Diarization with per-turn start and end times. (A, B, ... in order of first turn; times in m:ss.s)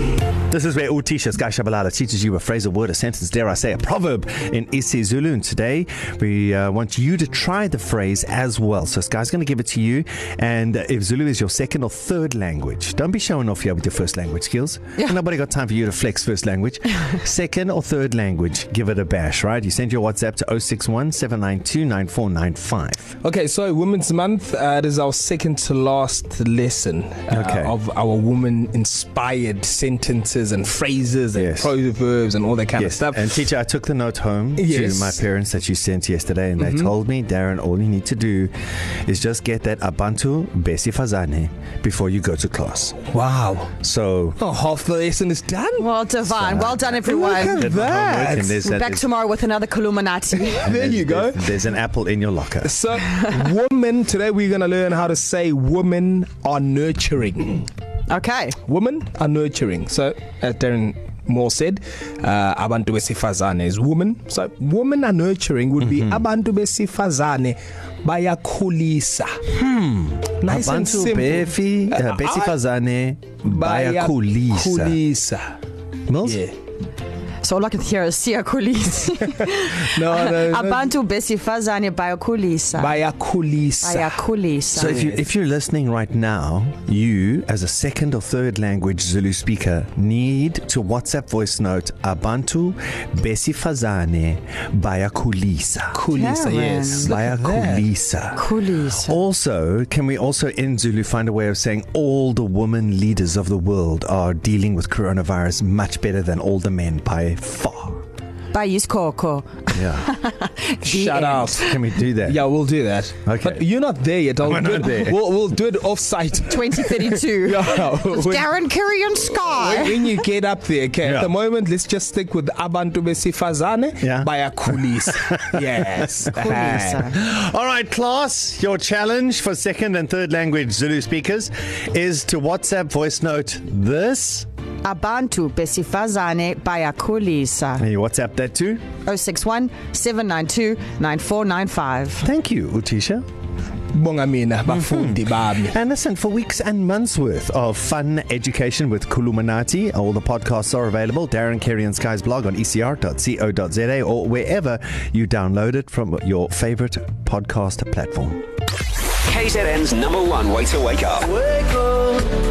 0:00.5-0:23.1 A
0:23.2-0:33.3 B
0:27.3-0:27.8 A
0:31.3-0:31.7 A
0:32.8-0:38.5 A
0:34.6-0:35.2 B
0:36.6-0:36.9 B
0:39.1-0:43.1 A
0:43.1-0:43.7 B
0:43.8-0:44.4 A
0:44.4-0:45.9 B
0:45.8-0:47.6 C
0:46.2-0:49.1 A
0:47.0-0:48.6 B
0:48.6-0:50.7 C
0:50.4-0:51.6 B
0:50.6-0:52.7 A
0:52.6-0:57.7 B
0:58.1-0:58.6 C
0:58.7-1:09.4 B
1:05.8-1:06.2 A
1:09.5-1:15.0 A
1:10.4-1:12.5 B
1:13.4-1:15.6 B
1:16.1-1:16.4 A
1:16.2-1:16.6 B
1:17.4-1:23.0 C
1:19.8-1:21.0 B
1:22.8-1:25.2 B
1:23.8-1:25.0 C
1:24.8-1:36.0 A
1:35.9-1:37.9 B
1:36.1-1:37.1 C
1:37.0-1:38.5 A
1:38.4-1:39.2 C
1:39.0-1:48.0 A
1:48.5-1:51.6 C
1:49.8-1:50.1 A
1:50.8-1:58.6 B
1:51.6-1:52.4 A
1:53.2-1:53.7 A
1:54.4-1:55.2 A
1:56.5-2:00.2 C
1:59.2-2:07.1 B
2:01.0-2:01.3 A
2:04.0-2:14.5 A
2:06.3-2:07.1 C
2:14.8-2:17.9 C
2:17.8-2:18.8 A
2:19.0-2:22.3 C
2:22.2-2:23.2 A
2:23.9-2:25.8 B
2:24.7-2:38.4 A
2:39.2-2:41.3 D
2:41.5-2:42.0 A